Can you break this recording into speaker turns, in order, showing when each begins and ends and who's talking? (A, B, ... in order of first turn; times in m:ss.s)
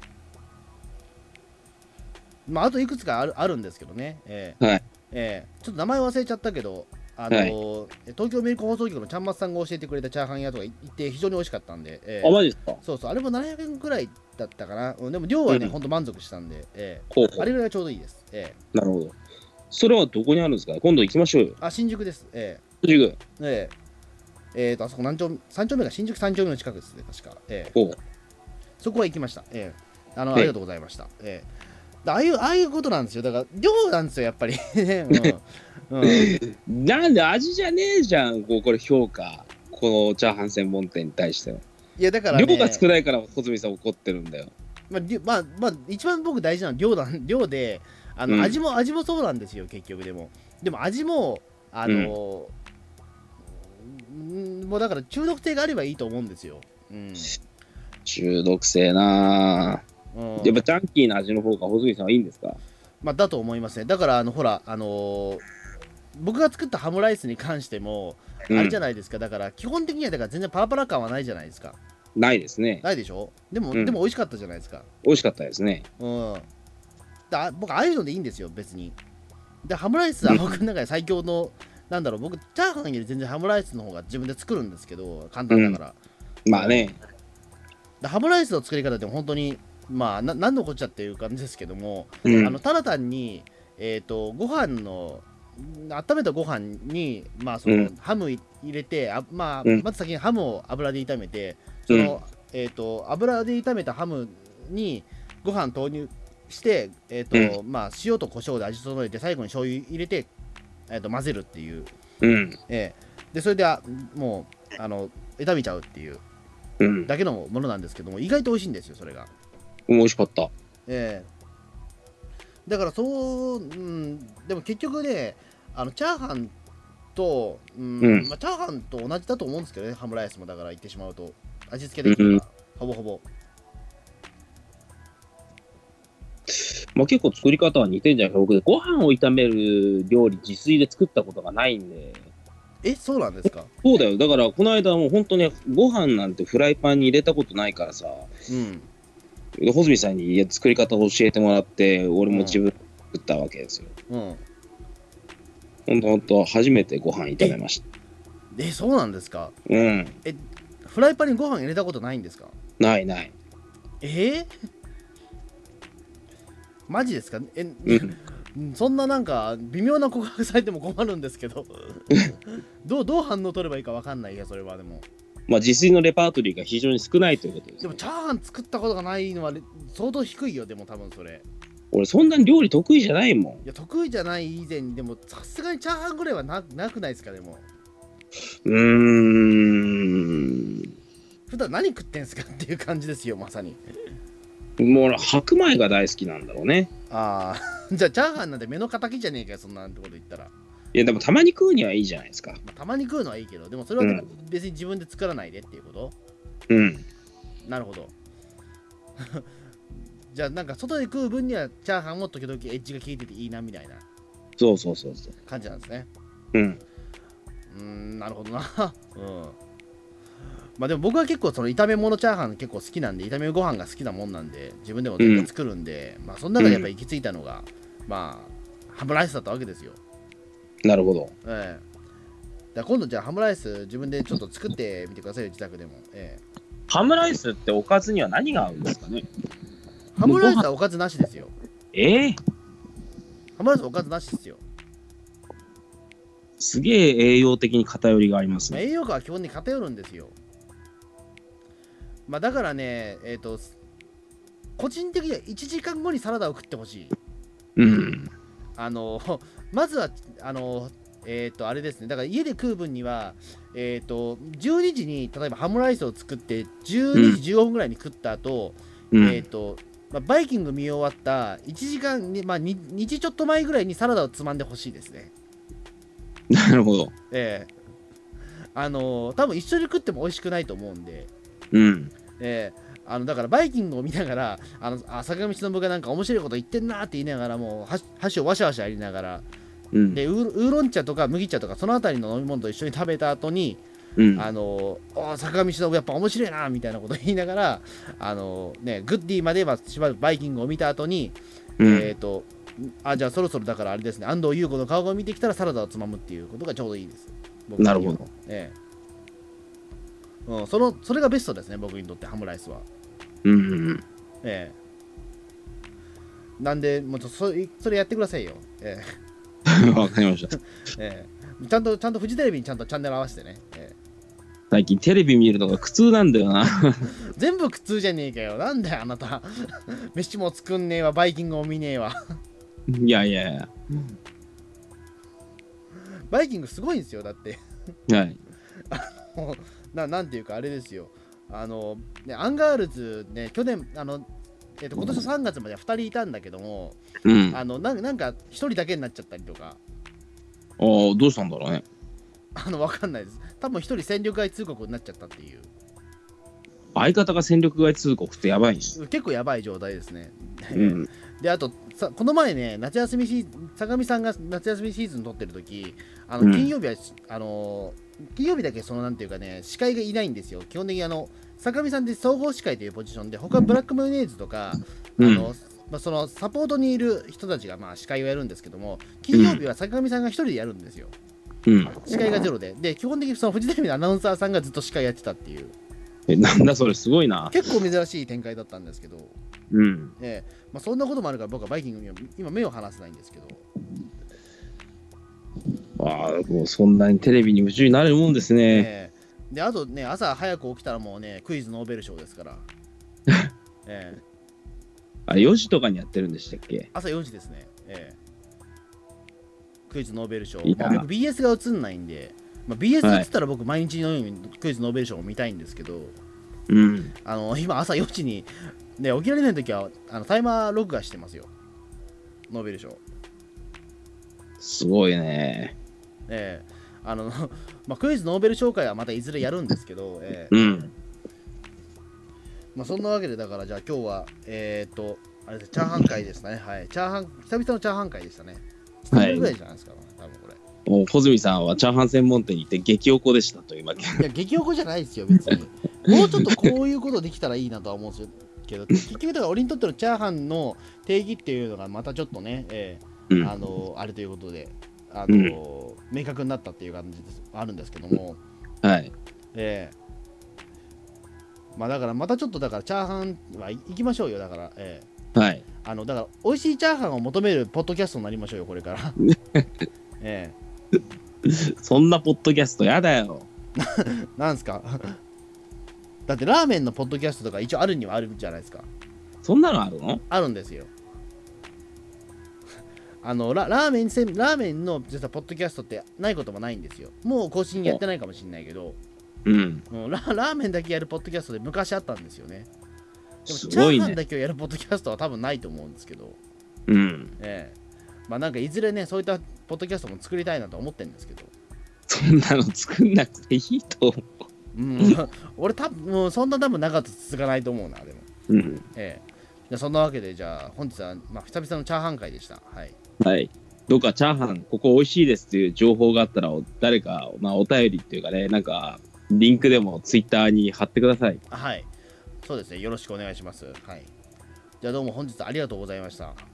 0:02.5-0:18.6 A
0:07.3-0:07.5 B
0:12.2-0:12.8 B
0:15.5-0:15.7 B
0:17.1-0:17.5 B
0:18.7-0:19.1 B
0:19.7-0:21.6 B
0:21.6-0:22.6 A
0:22.8-0:23.2 B
0:23.4-0:23.7 A
0:24.5-0:27.7 A
0:28.8-0:31.5 A
0:32.0-0:36.4 A
0:36.0-0:41.6 B
0:42.0-0:42.8 A
0:42.3-0:44.5 B
0:44.9-0:52.5 A
0:48.3-0:48.6 B
0:51.9-0:52.1 B
0:53.8-0:57.4 A
0:58.0-0:59.8 B
1:00.1-1:00.6 A
1:00.4-1:02.6 B
1:03.0-1:05.4 A
1:06.1-1:11.8 A
1:08.5-1:08.8 B
1:12.2-1:12.8 B
1:12.8-1:14.9 A
1:15.0-1:15.8 B
1:16.0-1:16.5 A
1:17.3-1:19.0 A
1:19.6-1:26.0 A
1:20.2-1:20.6 B
1:25.5-1:25.8 B
1:26.4-1:27.0 B
1:26.5-1:26.9 A
1:28.0-1:50.3 A
1:32.2-1:32.6 B
1:50.9-1:51.9 A
1:52.2-1:52.6 B
1:52.7-1:56.2 A
1:56.8-1:57.1 B
1:57.0-1:59.3 A
1:59.9-2:00.5 B
2:00.9-2:01.3 A
2:02.7-2:06.5 A
2:07.1-2:13.2 A
2:08.0-2:08.3 B
2:12.0-2:12.4 B
2:16.5-2:22.3 B
2:22.8-2:23.7 A
2:23.8-2:28.3 B
2:28.5-2:28.9 A
2:29.6-2:33.9 B
2:32.3-2:32.6 A
2:34.1-2:34.4 A
2:35.9-2:37.8 B
2:38.5-2:39.5 A
2:39.7-2:40.2 B
2:40.2-2:42.5 A
2:42.8-2:43.3 B
2:44.0-2:44.5 A
2:46.9-2:52.1 A
2:47.8-2:48.2 B
2:52.8-2:55.0 A
2:55.5-2:58.0 B
2:57.8-3:01.4 A
3:01.9-3:03.6 B
3:03.6-3:07.7 A
3:08.6-3:10.9 B
3:11.5-3:13.8 A
3:14.8-3:16.9 B
3:17.1-3:20.5 A
3:20.9-3:22.6 B
3:22.6-3:26.1 A
3:24.0-3:24.3 B
3:26.7-3:27.0 B
3:27.6-3:28.1 A
3:29.2-3:34.0 A
3:34.6-3:35.3 B
3:35.4-3:36.1 A
3:36.5-3:36.8 B
3:37.7-3:39.6 A
3:40.8-3:50.0 A
3:45.2-3:45.5 B
3:46.6-3:46.9 B
3:50.8-3:51.3 B
3:51.4-3:51.8 A
3:52.7-3:56.4 A
3:56.9-3:59.3 B
4:00.2-4:01.5 A
4:00.2-4:00.6 B
4:01.9-4:02.4 B
4:03.6-4:04.6 A
4:06.6-4:08.8 B
4:08.7-4:10.4 A
4:12.3-4:13.7 A
4:14.8-4:17.1 A
4:17.8-4:18.3 B
4:18.8-4:35.3 A
4:27.1-4:27.4 B
4:29.1-4:29.4 B
4:36.5-4:37.1 B
4:37.3-4:37.7 A
4:38.7-4:41.3 A
4:41.7-4:42.1 B
4:42.4-4:49.4 A
4:49.9-4:50.2 B
4:50.1-4:53.8 A
4:54.2-4:54.5 B
4:54.4-5:08.7 A
5:01.8-5:02.1 B
5:07.8-5:08.3 B
5:10.4-5:12.9 A
5:13.4-5:14.0 B
5:14.4-5:14.8 A
5:16.6-5:19.2 A
5:19.7-5:20.5 B
5:21.0-5:24.0 A
5:24.7-5:27.1 B
5:27.3-5:32.4 A
5:32.9-5:33.7 B
5:36.0-5:37.6 A
5:38.1-5:38.4 B
5:38.9-5:44.2 A
5:44.8-5:49.8 A
5:47.2-5:47.6 B
5:50.8-5:51.8 B
5:52.6-5:55.7 A
5:56.9-5:59.0 B
5:58.9-6:21.1 A
6:00.7-6:01.1 B
6:06.4-6:06.7 B
6:15.2-6:15.5 B
6:19.3-6:19.6 B
6:21.6-6:22.0 B
6:21.8-6:25.7 A
6:26.3-6:27.5 B
6:27.5-6:29.3 A
6:29.7-6:30.1 B
6:30.2-6:33.6 A
6:36.0-6:38.9 B
6:38.7-6:42.7 A
6:43.8-6:44.2 A
6:45.3-6:46.9 B
6:46.9-6:48.2 A
6:49.9-6:56.2 A
6:50.6-6:51.0 B
6:56.7-6:57.1 B
6:57.2-7:01.5 A
7:02.5-7:03.0 A
7:04.6-7:05.7 B
7:06.3-7:10.7 A
7:10.5-7:10.9 B
7:12.7-7:20.6 A
7:19.1-7:19.5 B
7:20.8-7:24.2 B
7:24.2-7:38.4 A
7:35.3-7:35.6 B
7:38.8-7:39.1 B
7:39.5-7:39.9 A
7:41.8-7:45.1 A
7:45.3-7:45.6 B
7:45.8-7:49.2 A
7:49.2-7:49.6 B
7:50.2-7:50.6 A
7:51.4-7:53.5 B
7:53.8-7:55.2 A
7:56.3-7:58.9 A
7:59.4-8:00.2 B
8:00.3-8:00.9 A
8:03.2-8:09.0 A
8:09.4-8:09.8 B
8:09.9-8:12.7 A
8:13.5-8:14.2 B
8:13.5-8:16.4 A
8:16.9-8:17.3 B
8:17.4-8:17.8 A
8:18.3-8:21.5 A
8:22.1-8:24.3 B
8:24.7-8:28.3 A
8:28.5-8:28.8 B
8:28.9-8:33.0 A
8:33.2-8:41.4 B
8:41.5-8:41.9 A
8:42.4-8:44.1 A
8:44.8-8:46.4 A